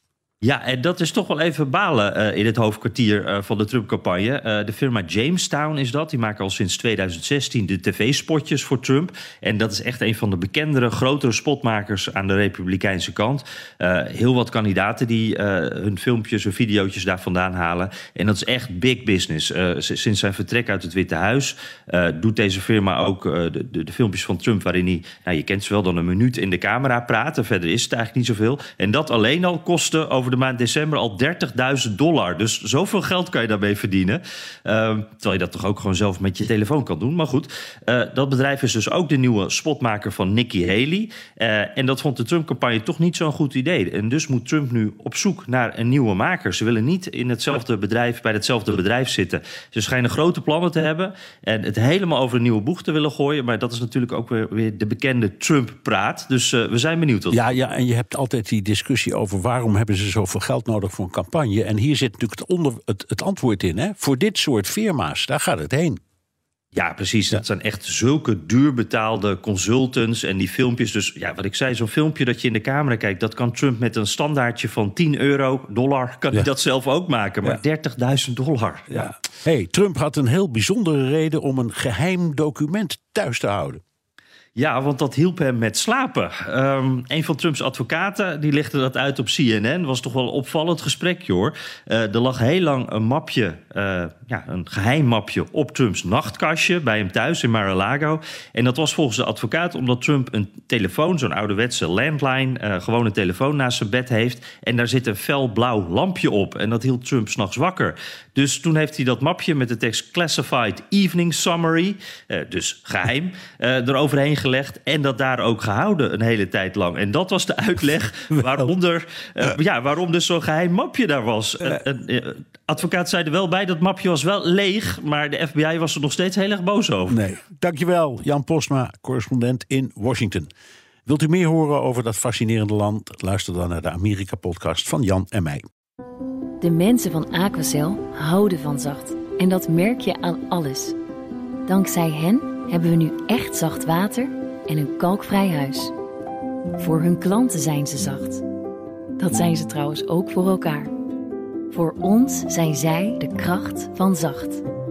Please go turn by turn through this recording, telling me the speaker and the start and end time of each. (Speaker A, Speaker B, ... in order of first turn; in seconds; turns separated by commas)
Speaker A: 0.4-57.5, Speaker B: 57.3-66.0, Speaker A: 66.7-79.1, Speaker B: 78.9-83.8, Speaker A: 84.6-127.2, Speaker B: 127.1-130.5, Speaker B: 131.1-135.7, Speaker C: 136.6-140.9, Speaker C: 141.7-145.9, Speaker C: 146.8-148.4, Speaker C: 149.2-150.9, Speaker C: 151.7-154.6